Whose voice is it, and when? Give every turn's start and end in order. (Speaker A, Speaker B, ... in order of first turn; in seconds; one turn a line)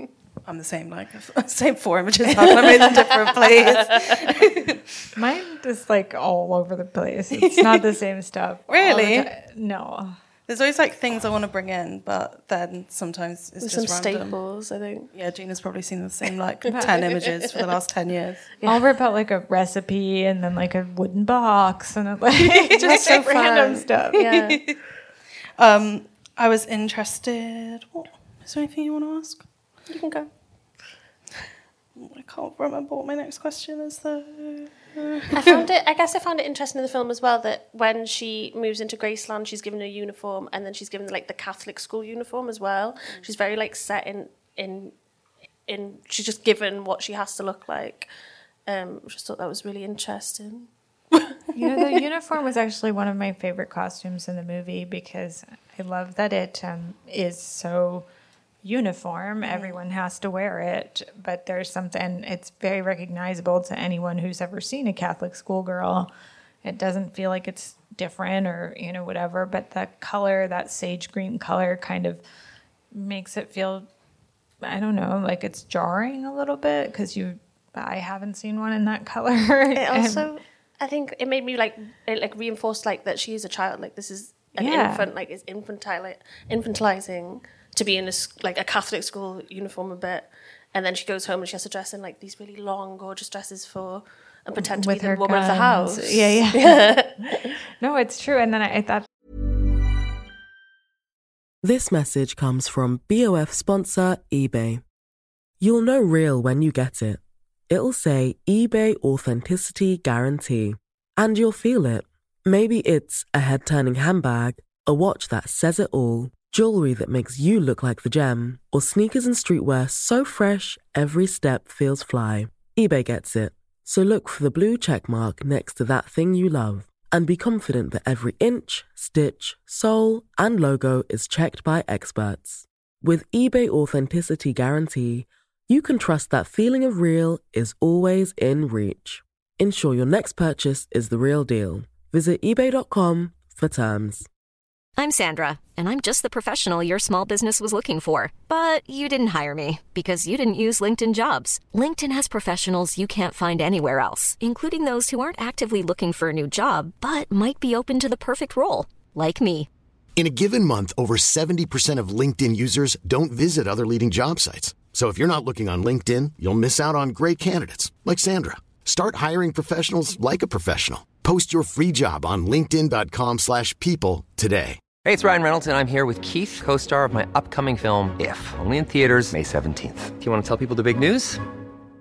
Speaker A: 0.5-4.8
Speaker B: 3.5-4.1
Speaker C: 5.2-10.2
Speaker A: 8.7-9.3
Speaker A: 10.5-14.3
Speaker B: 13.6-15.1
Speaker A: 15.1-18.5
Speaker C: 18.6-24.6
Speaker A: 22.6-23.1
Speaker B: 22.8-24.6
Speaker A: 25.6-29.4
Speaker B: 29.9-30.3
Speaker A: 31.9-35.6
Speaker B: 35.3-44.9
Speaker B: 45.7-48.1
Speaker B: 48.6-51.6
Speaker C: 51.5-58.0
Speaker C: 58.6-66.1
Speaker B: 59.4-59.8
Speaker C: 66.6-72.2
Speaker C: 72.9-73.9
Speaker C: 74.6-80.3
Speaker B: 79.8-97.5
Speaker C: 84.6-85.1
Speaker C: 94.6-96.9
Speaker C: 97.8-99.1
Speaker D: 101.6-104.8
Speaker D: 105.6-144.3
Speaker E: 145.0-159.7
Speaker F: 160.2-174.8
Speaker G: 175.0-181.4